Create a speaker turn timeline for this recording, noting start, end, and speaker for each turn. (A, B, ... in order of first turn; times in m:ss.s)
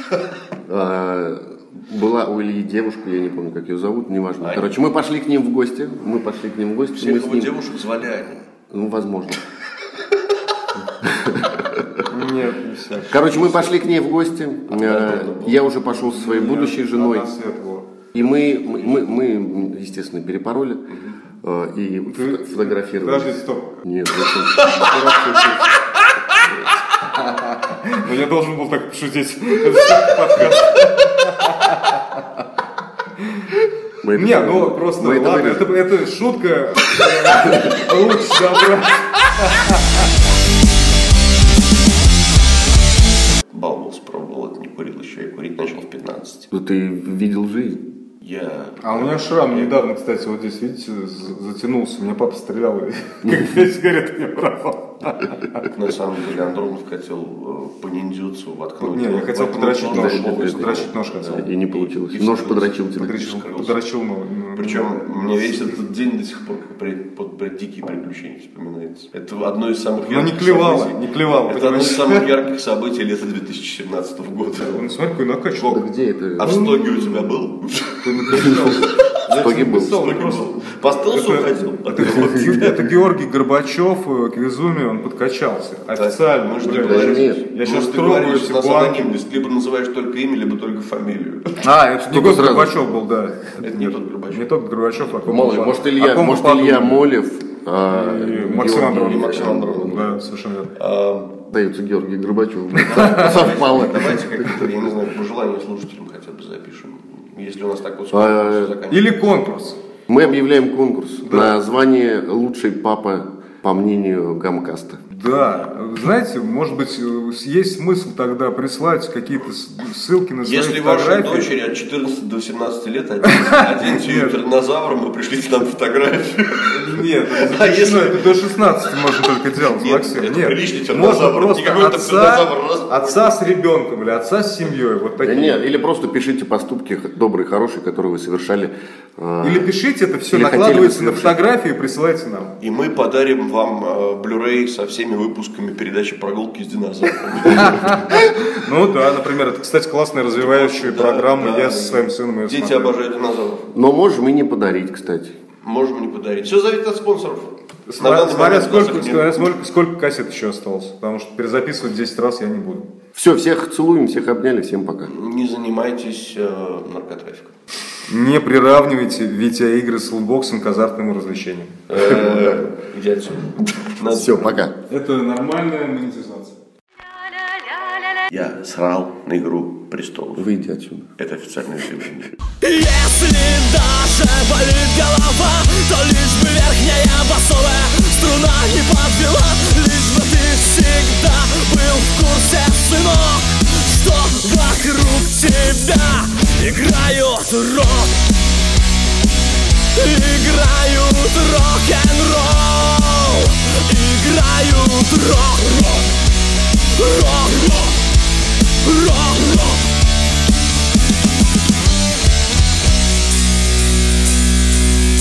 0:00.6-0:07.6 A
0:04.4-0:04.7 B
0:07.0-0:08.4 B
0:08.7-0:09.4 A
0:11.0-0:12.0 A
0:12.1-0:13.4 C
0:13.1-0:17.3 A
0:13.2-0:13.7 B
0:14.7-0:15.6 B
0:15.9-0:17.8 C
0:18.1-0:20.9 A
0:21.4-0:25.0 A
0:22.1-0:23.8 C
0:24.6-0:25.6 C
0:27.0-0:32.2 C
0:33.2-0:33.6 C
0:34.0-0:35.7 A
0:34.1-0:40.1 C
0:43.5-0:46.5 B
0:46.5-0:47.8 A
0:48.2-0:49.8 B
0:48.8-0:55.7 C
0:55.7-1:03.8 B
0:58.8-1:01.4 C
0:59.8-1:03.2 A
1:03.0-1:05.7 C
1:04.5-1:14.8 B
1:10.0-1:12.3 C
1:14.7-1:15.8 C
1:15.6-1:16.6 A
1:16.4-1:18.9 B
1:16.4-1:17.1 C
1:18.0-1:20.4 C
1:19.3-1:20.0 A
1:19.7-1:22.8 B
1:21.1-1:29.1 C
1:26.0-1:31.6 B
1:26.7-1:27.4 A
1:31.6-1:37.1 C
1:32.1-1:32.8 A
1:33.6-1:34.4 B
1:35.2-1:40.1 A
1:35.3-1:35.6 B
1:37.9-1:40.7 C
1:38.8-1:40.1 B
1:40.7-1:41.4 B
1:41.5-1:44.5 A
1:42.8-1:49.1 B
1:42.8-1:43.4 C
1:48.1-1:48.7 A
1:48.9-1:49.8 C
1:50.1-1:55.0 A
1:51.2-1:51.5 C
1:55.1-2:01.5 C
2:00.4-2:08.3 B
2:03.4-2:04.4 C
2:06.7-2:15.6 C
2:09.5-2:13.4 B
2:15.2-2:19.7 A
2:19.4-2:22.5 C
2:20.3-2:21.4 A
2:22.6-2:28.1 B
2:27.5-2:32.9 C
2:30.3-2:33.7 B
2:33.7-2:35.3 A
2:35.6-2:39.5 B
2:37.9-2:42.9 C
2:43.1-2:45.1 A
2:45.1-2:47.5 B
2:48.1-2:52.1 C
2:51.9-2:54.6 B
2:54.1-2:54.7 A
2:54.9-2:56.6 C
2:58.3-3:00.5 B
3:00.4-3:01.1 A
3:01.2-3:02.3 B
3:02.6-3:18.3 D
3:19.9-3:26.2 D
3:27.0-3:28.0 D
3:28.8-3:29.9 D